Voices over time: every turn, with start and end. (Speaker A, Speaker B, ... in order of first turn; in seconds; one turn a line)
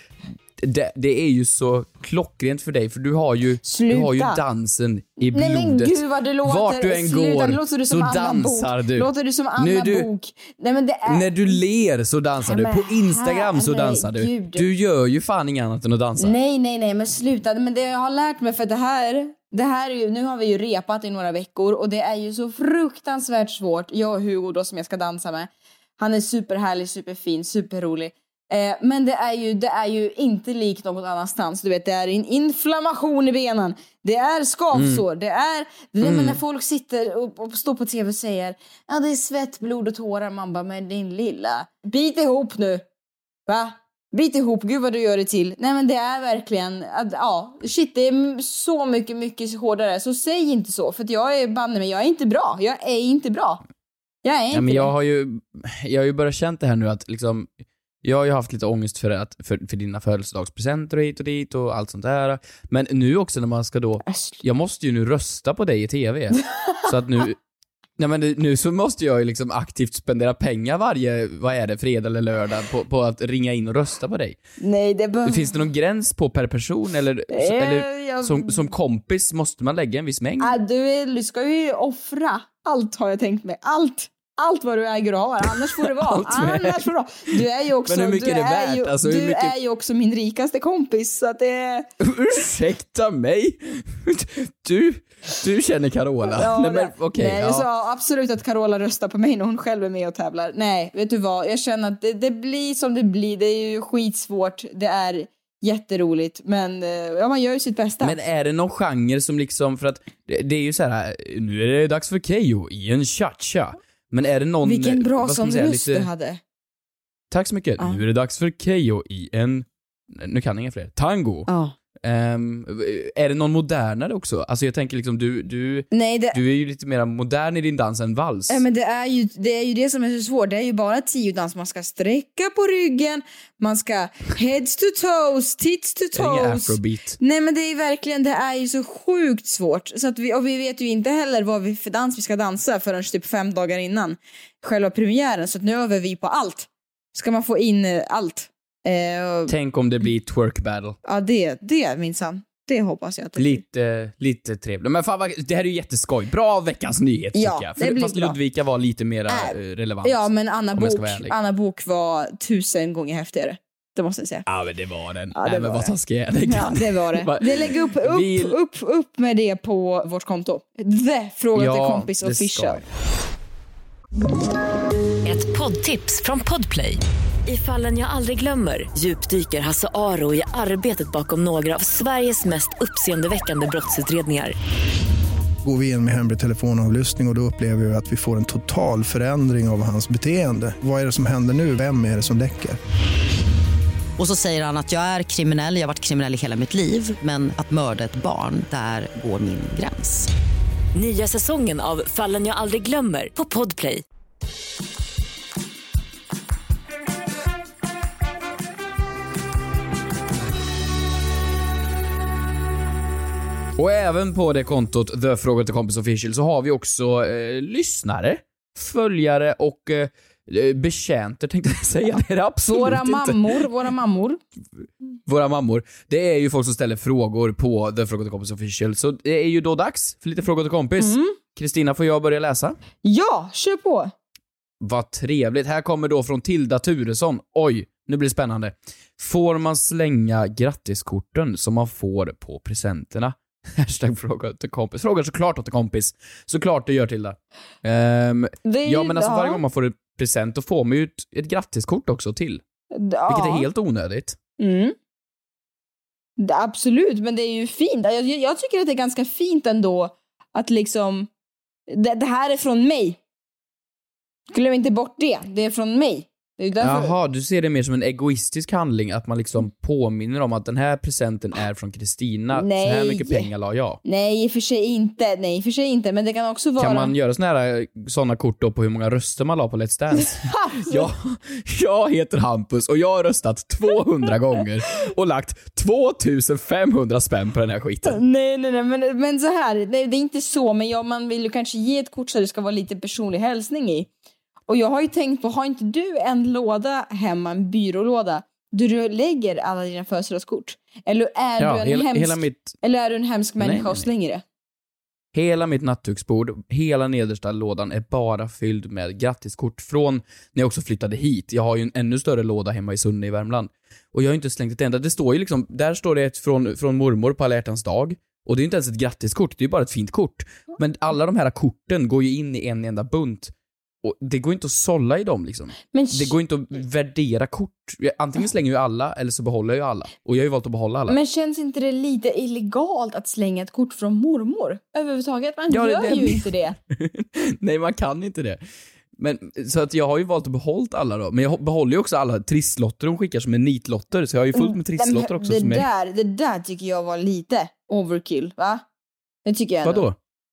Speaker A: 0.6-10.1
Speaker B: 3.6-4.4
Speaker B: 5.2-11.6
Speaker A: 11.1-16.3
Speaker B: 12.4-14.6
Speaker B: 16.2-42.8
Speaker A: 34.7-35.0
Speaker A: 36.0-36.4
Speaker B: 43.5-53.6
Speaker B: 54.2-54.9
Speaker A: 54.5-57.5
Speaker A: 58.0-67.4
Speaker A: 68.0-74.4
Speaker B: 74.6-75.6
Speaker A: 75.2-80.5
Speaker B: 77.3-78.7
Speaker B: 80.4-91.9
Speaker A: 85.8-89.5
Speaker A: 92.0-97.7
Speaker B: 96.3-108.2
Speaker A: 108.0-116.1
Speaker B: 114.6-116.4
Speaker A: 117.3-121.5
Speaker B: 121.5-121.7
Speaker A: 122.0-128.6
Speaker B: 125.9-126.4
Speaker B: 128.5-149.5
Speaker A: 136.2-137.2
Speaker A: 149.5-151.0
Speaker B: 151.0-153.6
Speaker A: 153.4-161.3
Speaker B: 157.3-158.4
Speaker B: 159.3-164.4
Speaker A: 164.5-168.6
Speaker B: 165.3-165.9
Speaker B: 166.4-172.8
Speaker A: 171.5-172.9
Speaker C: 175.2-184.5
Speaker D: 185.6-192.8
Speaker E: 194.2-200.3
Speaker C: 200.9-204.0
Speaker A: 213.8-223.6
Speaker B: 222.7-224.4
Speaker A: 225.2-232.8
Speaker B: 231.0-231.4
Speaker B: 233.0-234.1
Speaker A: 234.8-252.6
Speaker B: 248.6-249.6
Speaker B: 252.9-253.7
Speaker A: 253.3-254.4
Speaker B: 254.6-254.9
Speaker B: 256.4-261.3
Speaker B: 261.9-263.2
Speaker B: 264.5-267.1
Speaker A: 266.8-274.0
Speaker B: 272.5-273.5
Speaker B: 274.0-277.1
Speaker A: 276.8-288.2
Speaker B: 280.2-281.0
Speaker B: 288.0-294.1
Speaker B: 294.7-304.4
Speaker A: 301.6-302.8
Speaker A: 303.6-304.1
Speaker A: 305.3-323.5
Speaker A: 324.0-331.2
Speaker B: 325.9-326.3
Speaker B: 331.1-336.8
Speaker A: 335.7-338.6
Speaker A: 339.2-345.9
Speaker B: 344.5-348.8
Speaker B: 349.4-350.1
Speaker A: 349.8-350.1